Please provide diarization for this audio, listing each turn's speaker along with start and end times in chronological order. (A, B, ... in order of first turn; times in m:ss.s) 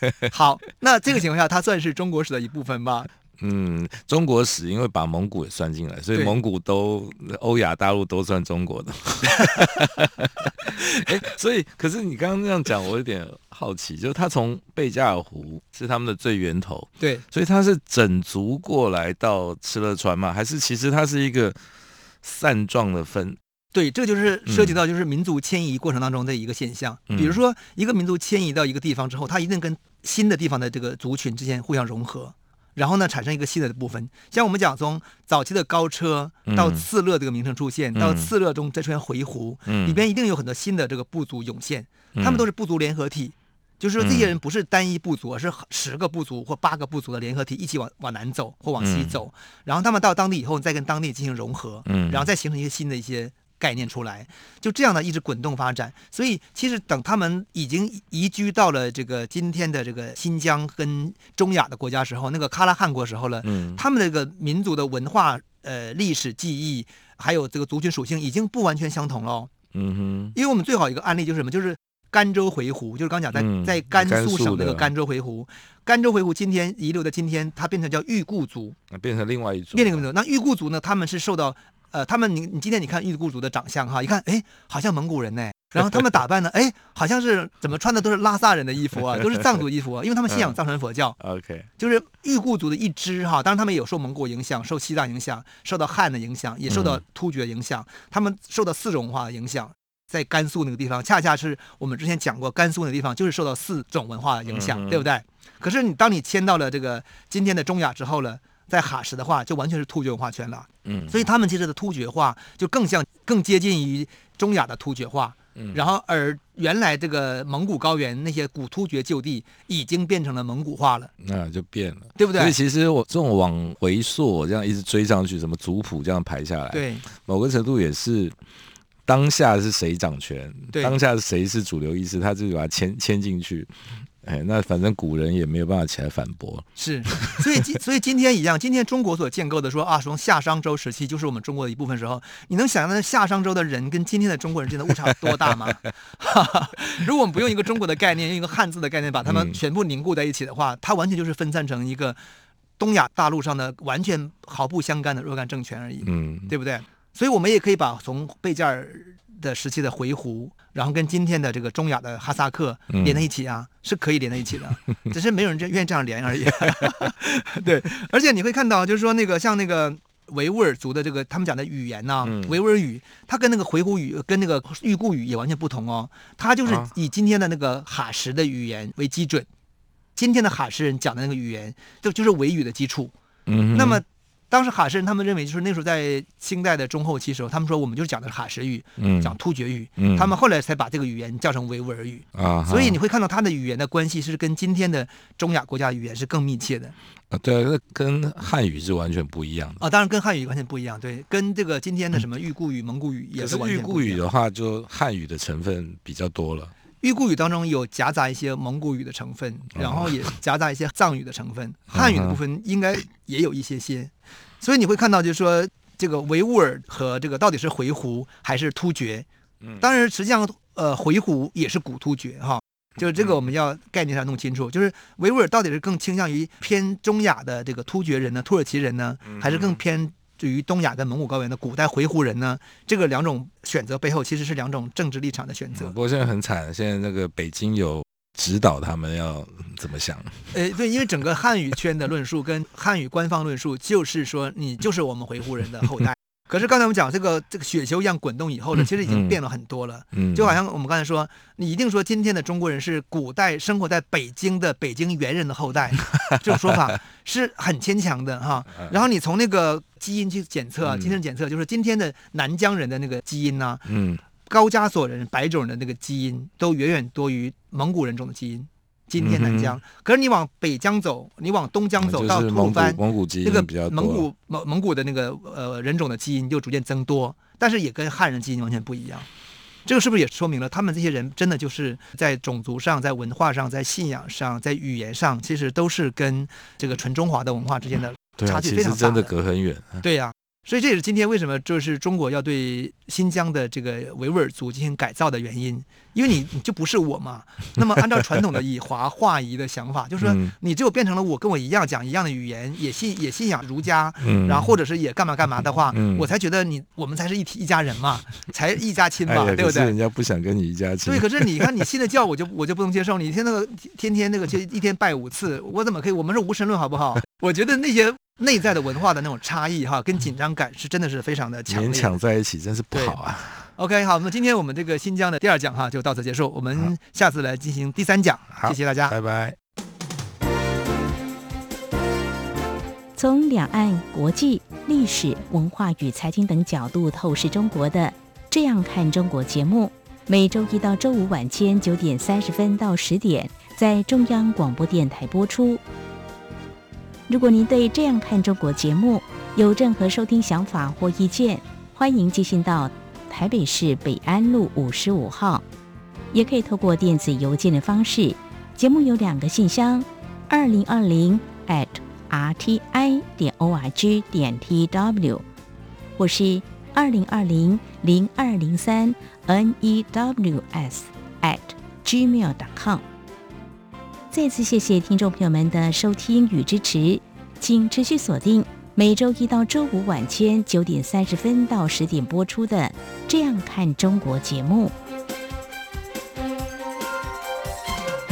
0:00.2-0:03.1 A
0:03.4-0:21.6 B
0:22.2-0:23.4 B
0:23.7-1:09.5 A
0:24.5-0:24.8 B
0:27.1-0:27.4 B
0:36.5-0:36.8 B
0:37.9-0:38.3 B
0:39.7-0:40.0 B
0:42.2-0:42.4 B
0:44.0-0:44.3 B
0:48.8-0:49.2 B
0:51.8-0:52.3 B
1:03.4-1:03.8 B
1:09.7-1:10.3 B
1:10.3-1:18.8 A
1:13.3-1:14.9 B
1:18.9-1:20.0 B
1:19.7-1:31.2 A
1:30.3-1:30.6 B
1:31.2-1:31.7 B
1:31.8-2:01.1 A
1:36.7-1:37.0 B
1:44.4-1:45.0 B
1:50.8-1:51.2 B
1:55.6-1:55.8 B
2:01.2-2:08.4 B
2:02.2-2:02.6 A
2:06.7-2:07.0 A
2:09.0-2:17.6 B
2:10.7-2:11.0 A
2:16.8-2:32.2 A
2:25.2-2:25.7 B
2:29.2-2:29.6 B
2:32.8-2:59.5 A
2:36.0-2:36.5 B
2:42.9-2:43.2 B
2:46.6-2:46.9 B
2:52.2-2:52.6 B
2:56.6-2:56.9 B
3:00.2-3:03.1 A
3:03.4-3:04.0 B
3:03.7-3:16.9 A
3:09.0-3:09.3 B
3:10.0-3:10.3 B
3:12.3-3:13.0 B
3:17.3-3:19.8 B
3:19.8-3:24.2 A
3:23.4-3:26.7 B
3:27.0-3:39.3 A
3:29.7-3:30.1 B
3:31.9-3:32.4 B
3:39.8-3:55.9 A
3:49.2-3:49.8 B
3:55.7-4:00.5 B
4:00.5-4:23.8 A
4:09.0-4:09.4 B
4:10.1-4:10.6 B
4:16.2-4:16.9 B
4:20.8-4:21.2 B
4:23.8-4:24.2 B
4:24.4-4:39.3 A
4:29.2-4:29.8 B
4:32.0-4:34.3 B
4:39.8-4:49.3 A
4:48.4-4:50.0 B
4:50.0-5:09.9 A
5:00.2-5:00.5 B
5:04.2-5:04.8 B
5:05.9-5:06.3 B
5:09.2-5:11.8 B
5:11.0-5:22.2 A
5:21.7-5:23.7 B
5:23.8-5:29.2 A
5:28.6-5:29.6 B
5:33.2-5:45.8 C
5:47.3-5:55.6 C
5:56.3-6:05.4 C
6:06.2-6:13.0 C
6:14.3-6:24.9 C